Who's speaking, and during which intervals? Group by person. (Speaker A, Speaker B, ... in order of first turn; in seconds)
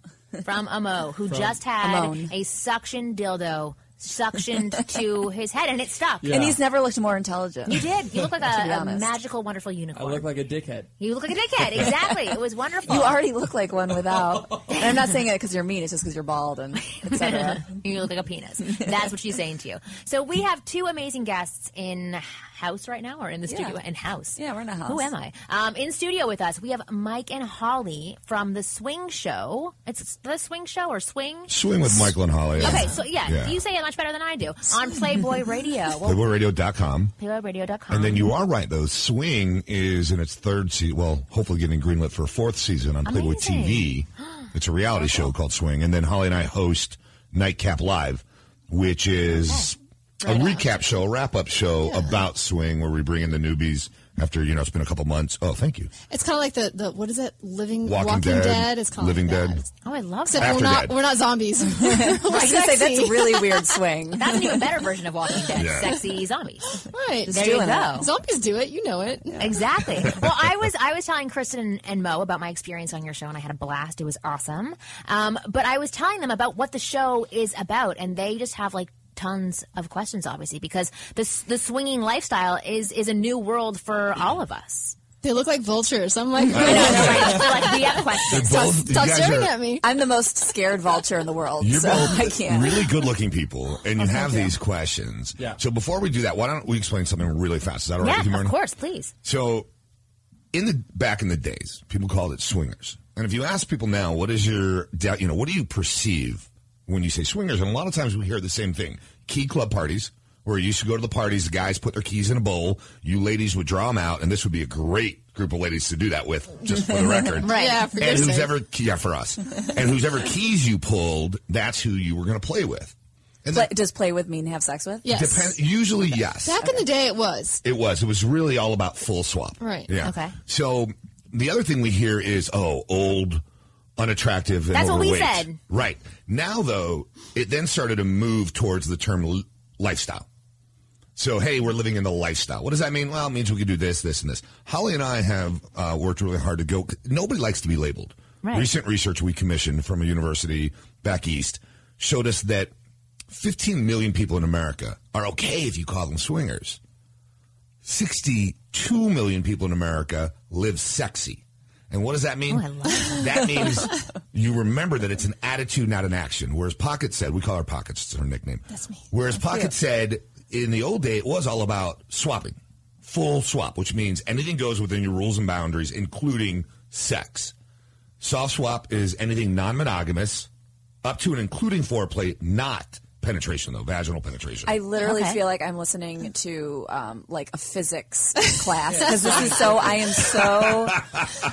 Speaker A: 0.4-6.3, 7.7-10.3, 11.0-13.2, 17.0-36.2, 37.2-38.3, 43.1-43.9, 49.5-49.7, 50.3-50.6, 59.8-60.7, 64.2-66.7, 67.3-68.1, 69.4-85.0, 86.5-88.8, 98.0-99.1, 117.4-118.0, 130.0-130.4, 134.7-135.6, 148.4-148.7, 162.5-163.6, 185.0-185.4
Speaker B: 1.8-2.3, 6.3-9.1, 12.8-17.7, 23.5-23.8, 24.4-25.1, 61.8-64.7, 67.3-68.1, 86.7-87.1, 89.8-92.9, 123.5-125.3, 184.7-191.1
Speaker C: 6.2-6.6, 9.9-10.9, 189.0-189.7
Speaker D: 31.5-33.6, 36.0-37.1, 37.9-55.9, 57.9-59.6, 60.4-61.0, 65.5-66.0, 86.6-87.4, 88.3-89.5, 91.6-98.6, 99.2-99.7, 100.5-123.7, 125.1-126.7, 127.6-133.4, 134.0-140.3, 141.2-152.7, 153.3-156.8, 157.8-177.5, 178.2-180.5, 181.0-184.8, 190.7-191.3
Speaker E: 50.3-50.6, 51.9-52.2, 56.0-59.7, 60.3-63.8, 66.8-69.5, 85.2-89.9, 94.0-94.5, 117.3-118.6, 125.0-125.6, 126.4-127.6, 129.6-129.9, 168.7-169.7